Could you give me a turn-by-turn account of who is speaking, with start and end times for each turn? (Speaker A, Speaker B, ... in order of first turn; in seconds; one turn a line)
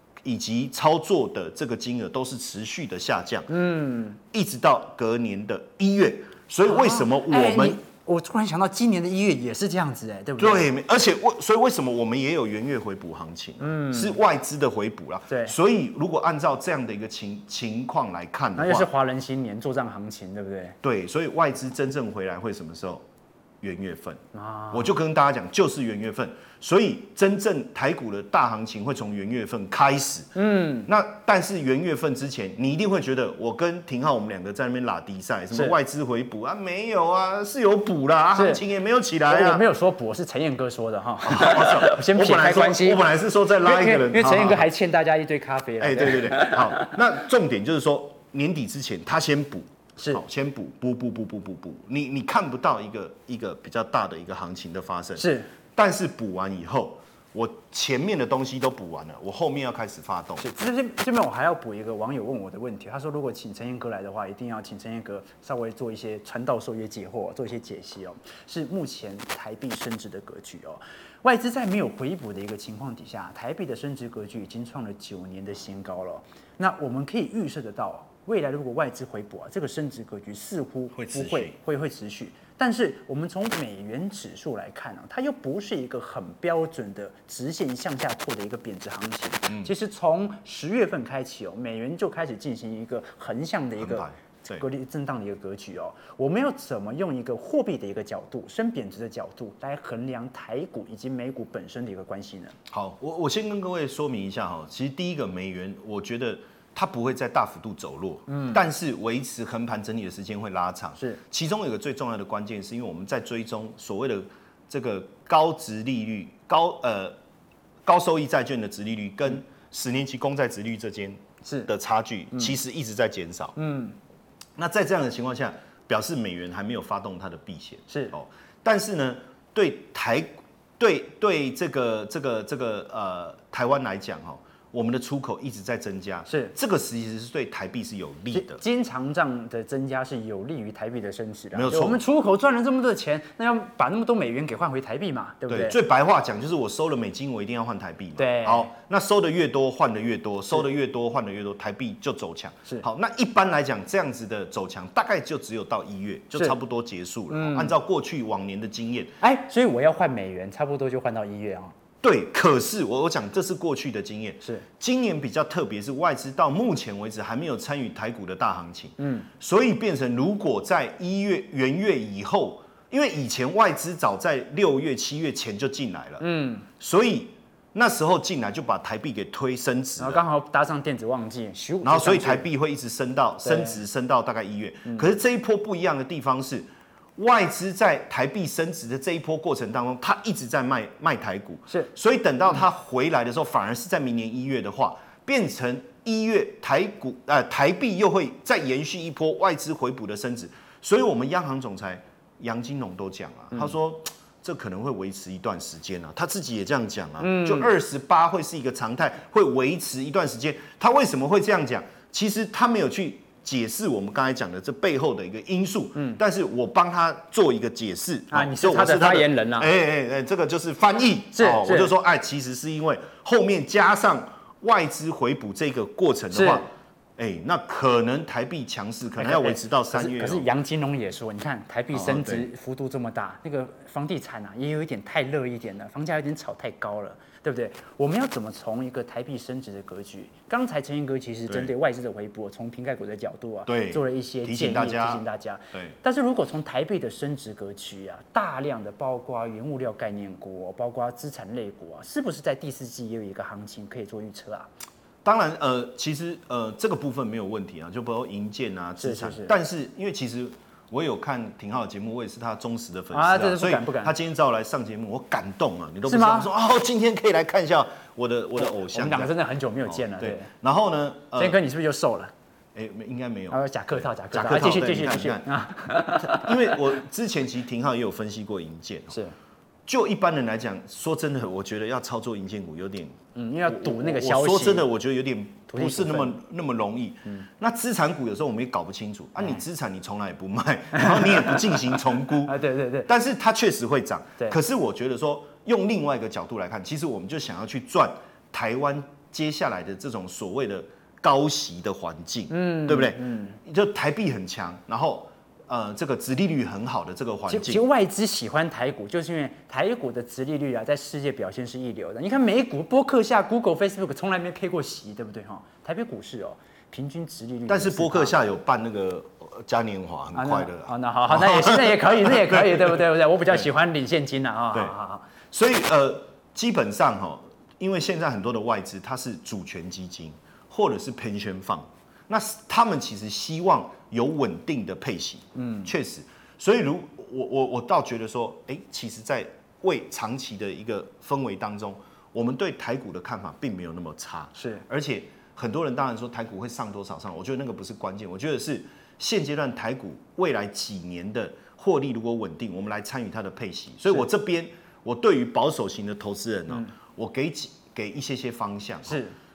Speaker A: 0.2-3.5
Speaker B: 3.5-4.2
Speaker A: 4.3-7.8
Speaker B: 6.7-10.7
Speaker A: 10.4-18.9
Speaker B: 13.6-14.2
Speaker B: 18.6-20.8
Speaker A: 20.8-23.0
Speaker A: 23.6-30.3
Speaker B: 24.3-24.9
Speaker B: 30.4-30.9
Speaker A: 30.9-39.7
Speaker B: 38.4-38.6
Speaker B: 39.3-43.0
Speaker A: 41.2-44.7
Speaker B: 43.6-47.0
Speaker A: 45.8-60.5
Speaker B: 55.2-55.5
Speaker B: 60.4-102.6
Speaker A: 80.9-81.6
Speaker A: 93.8-94.7
Speaker A: 102.7-117.2
Speaker B: 108.3-108.6
Speaker A: 117.8-123.5
Speaker B: 121.4-121.7
Speaker B: 123.6-124.0
Speaker A: 124.6-138.6
Speaker B: 127.9-128.1
Speaker B: 136.3-136.5
Speaker B: 138.3-145.8
Speaker A: 141.5-142.0
Speaker A: 145.5-159.1
Speaker B: 148.2-148.7
Speaker B: 157.3-157.8
Speaker B: 159.2-161.8
Speaker A: 162.0-180.2
Speaker B: 169.0-169.3
Speaker B: 176.2-176.7
Speaker B: 180.0-182.5
Speaker A: 181.8-230.5
Speaker B: 183.4-183.8
Speaker B: 207.2-207.7
Speaker B: 218.3-219.7
Speaker B: 221.3-221.9
Speaker B: 226.3-226.6
Speaker B: 229.2-254.7
Speaker A: 231.9-232.5
Speaker A: 243.7-246.0
Speaker A: 255.2-269.3
Speaker B: 259.0-259.5
Speaker B: 263.1-264.1
Speaker B: 266.1-266.5
Speaker B: 268.6-270.5
Speaker A: 269.9-271.6
Speaker B: 271.4-272.3
Speaker A: 272.8-275.5
Speaker B: 273.5-276.8
Speaker A: 276.0-279.2
Speaker A: 279.9-292.6
Speaker B: 283.4-284.9
Speaker B: 285.7-286.4
Speaker B: 290.9-293.1
Speaker A: 293.1-307.8
Speaker B: 302.5-303.6
Speaker B: 307.5-318.3
Speaker A: 317.7-323.0
Speaker B: 320.4-325.3
Speaker A: 325.5-359.2
Speaker B: 335.6-335.9
Speaker B: 344.6-344.9
Speaker B: 359.1-359.4